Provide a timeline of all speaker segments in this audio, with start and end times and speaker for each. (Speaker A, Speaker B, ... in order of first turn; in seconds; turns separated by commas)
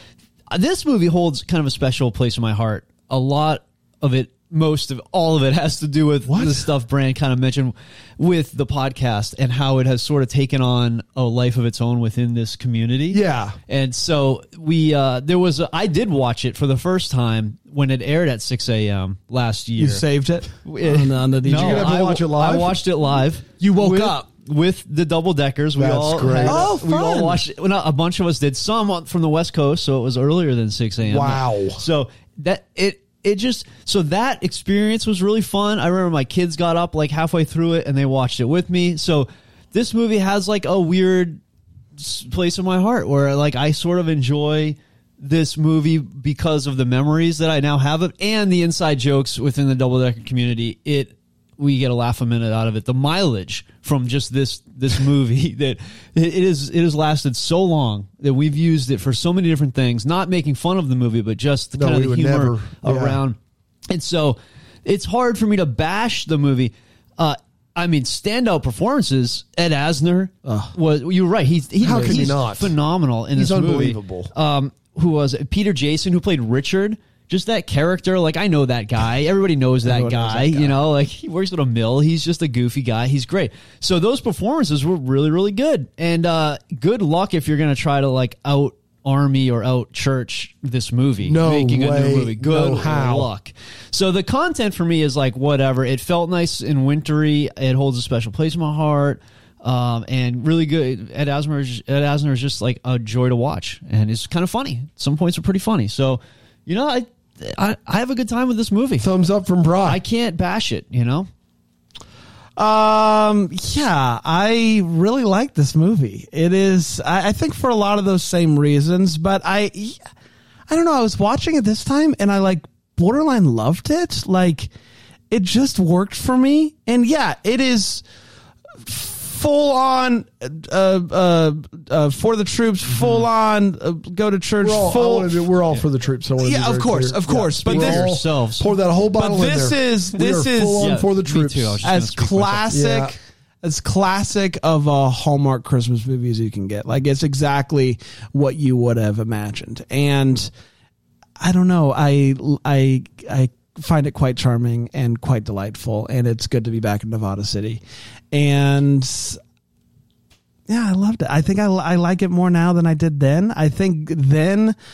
Speaker A: 0.5-20.0, Speaker B: 6.3-6.7, Speaker B: 13.1-13.6, Speaker C: 19.8-21.9, Speaker A: 20.6-41.4, Speaker B: 21.5-22.8, Speaker C: 23.6-24.3, Speaker B: 25.8-26.7, Speaker C: 26.4-27.4, Speaker B: 31.0-31.8, Speaker A: 42.0-63.4, Speaker B: 61.7-63.2, Speaker A: 63.9-109.1, Speaker C: 70.4-70.7, Speaker B: 71.8-72.7, Speaker B: 73.3-74.3, Speaker C: 79.8-80.8, Speaker B: 91.2-93.3, Speaker B: 109.0-110.0, Speaker A: 109.8-111.3, Speaker C: 112.6-120.0, Speaker C: 120.7-124.7, Speaker C: 125.3-128.0, Speaker C: 128.8-135.5, Speaker A: 132.9-133.2, Speaker B: 134.6-141.8, Speaker C: 136.4-138.1, Speaker A: 137.5-138.7, Speaker C: 139.2-141.0, Speaker A: 140.8-142.7, Speaker C: 141.8-150.5, Speaker B: 142.7-143.2, Speaker C: 151.4-159.4, Speaker C: 160.7-164.8